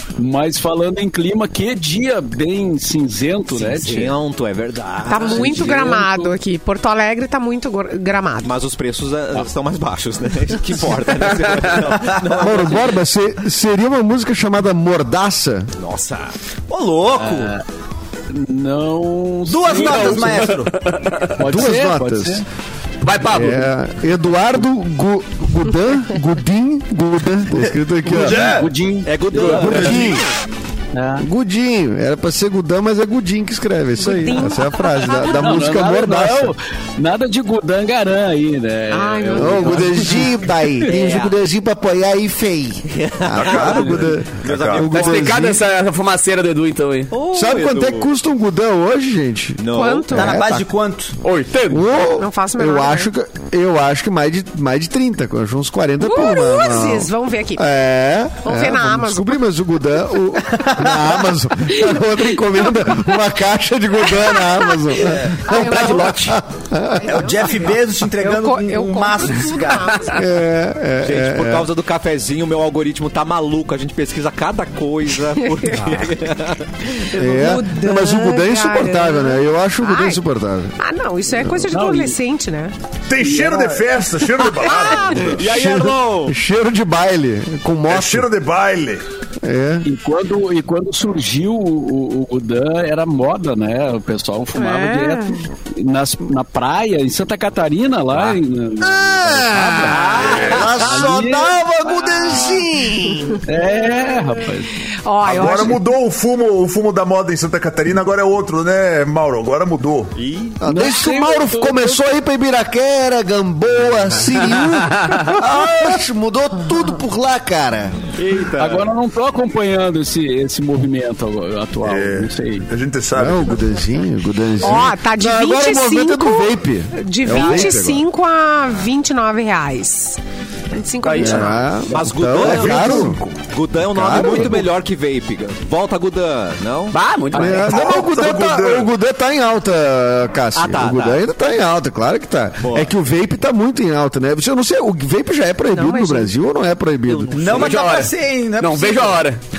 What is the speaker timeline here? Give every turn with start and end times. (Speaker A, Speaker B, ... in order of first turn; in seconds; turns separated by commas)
Speaker A: 0.2-4.2, Speaker B: 3.5-5.9, Speaker C: 5.1-8.5, Speaker A: 5.2-6.3, Speaker B: 8.4-12.9, Speaker D: 12.3-15.7, Speaker B: 15.8-16.3, Speaker E: 16.7-17.5, Speaker A: 17.1-17.6, Speaker A: 18.3-20.4, Speaker E: 19.5-20.7, Speaker D: 19.7-20.2, Speaker F: 20.3-21.3, Speaker A: 21.4-22.4, Speaker D: 21.4-22.4, Speaker F: 23.0-23.7, Speaker D: 23.2-28.5, Speaker E: 28.0-28.7, Speaker A: 28.1-30.0, Speaker B: 29.0-30.2, Speaker D: 29.5-30.2, Speaker A: 30.9-31.3, Speaker D: 31.2-36.5, Speaker C: 34.0-35.6, Speaker A: 35.2-40.4, Speaker C: 38.9-40.2, Speaker D: 39.3-45.6, Speaker B: 40.8-41.3, Speaker B: 42.9-45.3, Speaker G: 43.3-44.9, Speaker F: 44.8-47.1, Speaker B: 47.1-48.1, Speaker D: 47.3-50.6, Speaker B: 49.6-50.2, Speaker C: 49.7-50.3, Speaker E: 50.1-51.1, Speaker F: 51.2-51.9, Speaker D: 51.7-67.3, Speaker C: 52.1-53.1, Speaker C: 56.0-57.7, Speaker C: 58.4-59.4, Speaker E: 60.6-61.2, Speaker C: 64.1-66.3, Speaker E: 65.0-65.4, Speaker F: 65.5-66.4, Speaker C: 66.9-70.2, Speaker E: 67.1-70.0, Speaker D: 70.1-71.7, Speaker B: 71.0-76.9, Speaker C: 75.6-76.0, Speaker C: 77.1-80.2, Speaker D: 77.1-80.7, Speaker C: 80.8-82.7, Speaker A: 81.5-82.2, Speaker G: 83.1-85.6, Speaker A: 83.1-84.4, Speaker C: 84.7-85.2, Speaker B: 85.2-86.3, Speaker D: 85.4-88.3, Speaker G: 87.9-89.0, Speaker D: 89.4-89.9, Speaker A: 89.8-101.5, Speaker C: 94.5-95.4, Speaker D: 98.8-103.4, Speaker B: 99.6-100.8, Speaker A: 103.4-104.7, Speaker C: 105.0-105.8, Speaker G: 105.2-110.1, Speaker B: 110.1-110.6, Speaker D: 110.6-118.0, Speaker A: 110.7-111.9, Speaker F: 110.8-111.5, Speaker B: 118.1-118.9, Speaker A: 118.5-122.7, Speaker G: 121.8-123.6, Speaker D: 123.1-128.0, Speaker C: 124.6-130.2, Speaker C: 130.7-131.7, Speaker F: 131.1-131.5, Speaker D: 131.2-133.2, Speaker B: 131.9-137.0, Speaker G: 132.4-133.4, Speaker D: 133.9-134.7, Speaker A: 134.2-134.5, Speaker F: 136.9-137.7, Speaker D: 137.3-147.5, Speaker G: 137.4-138.9, Speaker B: 140.5-141.2, Speaker B: 142.6-142.9, Speaker C: 145.7-146.3, Speaker B: 147.1-147.7, Speaker E: 147.3-149.2, Speaker F: 147.4-149.4